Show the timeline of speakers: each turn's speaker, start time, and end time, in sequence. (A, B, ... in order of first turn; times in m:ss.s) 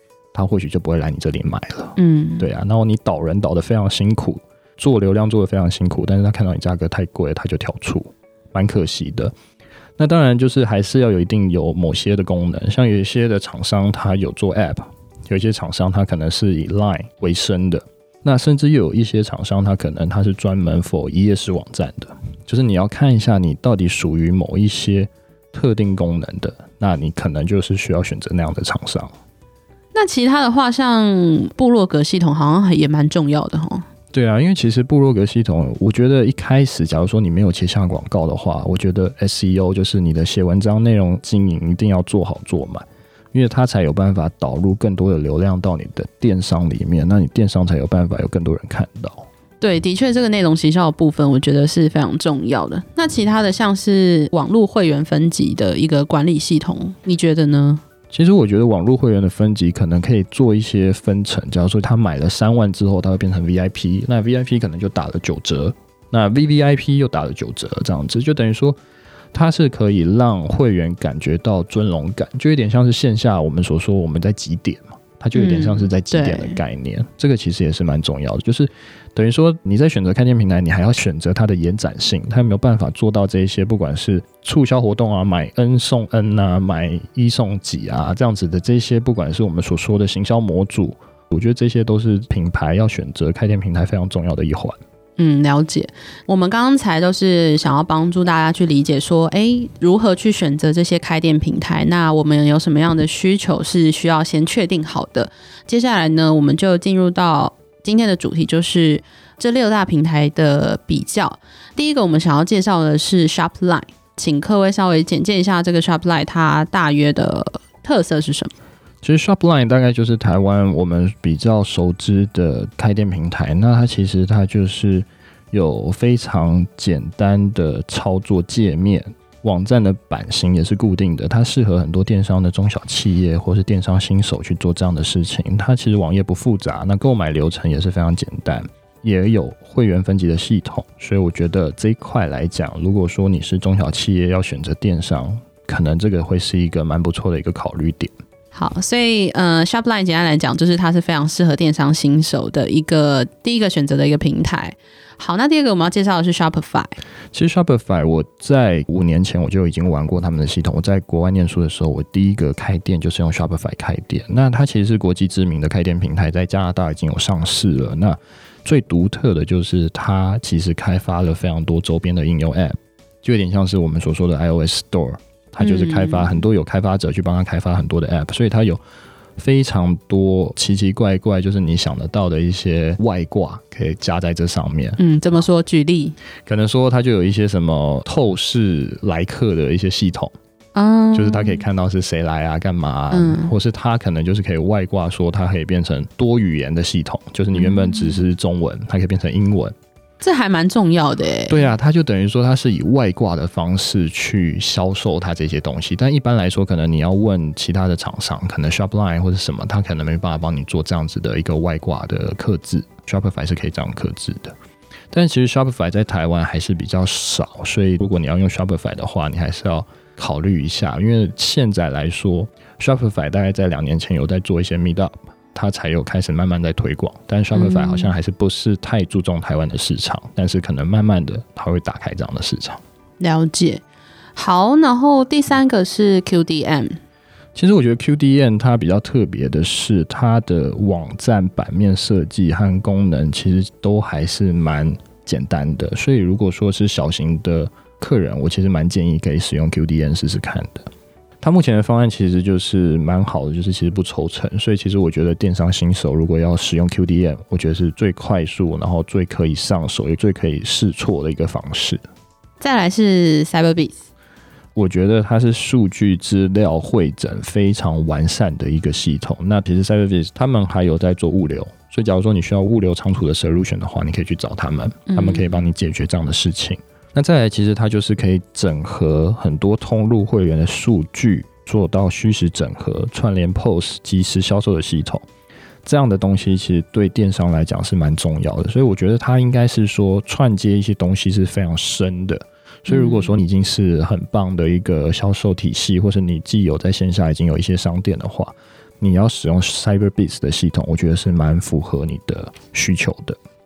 0:00.3-0:09.3 A
0:02.0-0:02.5 B
0:10.0-0:29.1 A
0:29.9-0:33.8 B
0:34.1-0:49.3 A
0:49.6-0:57.8 B
0:58.1-1:08.8 A
1:09.3-1:34.8 A
1:15.3-1:16.6 B
1:35.2-1:58.5 B
1:59.0-2:28.1 A
2:28.5-2:37.0 B
2:37.3-2:58.8 A
2:55.6-2:56.3 B
2:59.4-3:05.0 A
3:05.0-3:06.2 B
3:06.5-3:10.3 A
3:10.8-3:11.6 B
3:11.1-3:19.8 A
3:13.1-3:13.5 B
3:17.5-3:18.2 B
3:20.2-3:21.6 B
3:21.5-3:34.6 A
3:35.1-3:52.8 A
3:47.5-3:48.1 B
3:53.2-3:53.8 B
3:54.4-3:57.0 B
3:57.6-4:10.9 A
4:11.4-4:22.0 A
4:22.6-4:24.0 B
4:24.8-4:45.2 A
4:35.1-4:35.6 B
4:45.8-5:03.4 A
4:52.9-4:53.3 B